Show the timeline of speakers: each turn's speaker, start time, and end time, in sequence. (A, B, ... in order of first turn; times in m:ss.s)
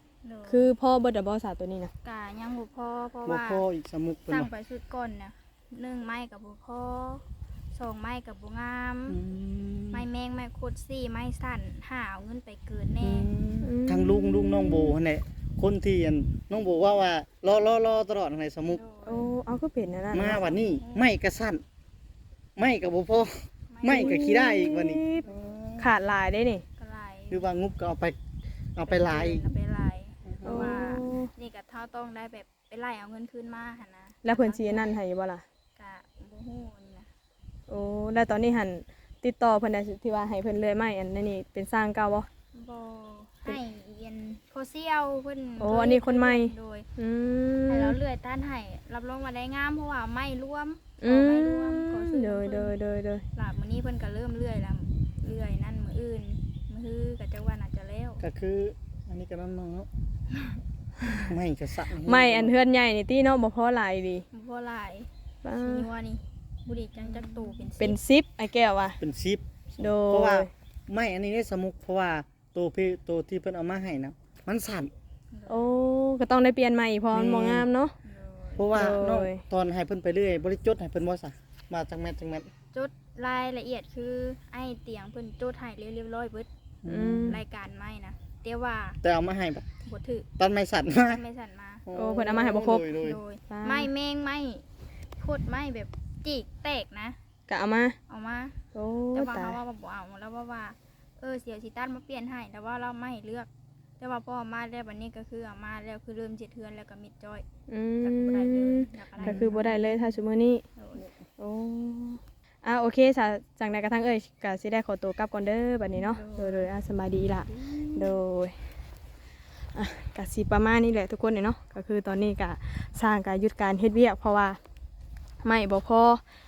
0:00.2-0:00.7 A
0:00.5-0:01.9 B
0:02.0-0:03.6 A
0:03.3-0:04.5 C
0:04.3-0:09.2 A
0:09.1-0:10.0 C
0:09.9-0:13.3 A
0:13.0-0:18.8 C
0:13.6-0:15.0 B
0:18.7-0:19.3 A
0:19.1-0:20.4 B
0:20.1-0:21.6 C
0:20.3-0:21.0 A
0:22.6-0:25.1 C
0:23.7-0:24.4 A
0:23.9-0:25.2 B
0:25.8-0:26.6 B
0:26.8-0:27.5 A
0:27.3-0:28.2 C
0:28.8-0:29.4 C
0:28.8-0:35.0 A
0:30.4-0:30.7 C
0:30.5-0:31.3 B
0:34.2-0:35.4 B
0:35.8-0:37.1 A
0:37.7-0:42.3 B
0:42.5-0:46.9 A
0:45.6-0:48.0 B
0:47.7-0:52.8 A
0:51.0-0:53.2 B
0:53.4-0:58.2 A
0:58.2-0:59.9 C
1:01.2-1:02.5 C
1:02.0-1:04.2 B
1:04.3-1:08.0 A
1:05.4-1:05.9 B
1:07.8-1:09.0 B
1:09.0-1:14.9 C
1:09.8-1:10.5 B
1:15.3-1:15.7 A
1:15.5-1:17.9 B
1:17.1-1:17.7 C
1:18.0-1:18.7 A
1:18.6-1:22.5 C
1:18.7-1:19.4 B
1:22.7-1:26.5 A
1:26.8-1:27.4 C
1:26.9-1:27.4 B
1:27.3-1:29.0 A
1:29.0-1:29.6 C
1:29.8-1:30.3 A
1:30.4-1:31.2 C
1:31.0-1:31.8 A
1:31.9-1:33.2 C
1:32.0-1:32.8 B
1:33.0-1:34.6 A
1:33.5-1:33.9 B
1:35.2-1:37.2 A
1:37.5-1:38.0 B
1:38.1-1:38.6 A
1:38.8-1:39.6 B
1:39.1-1:47.4 A
1:47.7-1:50.6 B
1:48.0-1:50.2 A
1:49.2-1:49.6 C
1:50.8-1:51.0 A
1:51.4-1:58.5 B
1:55.9-1:56.7 A
1:57.3-1:58.2 A
1:59.8-2:04.6 B
2:05.4-2:06.2 B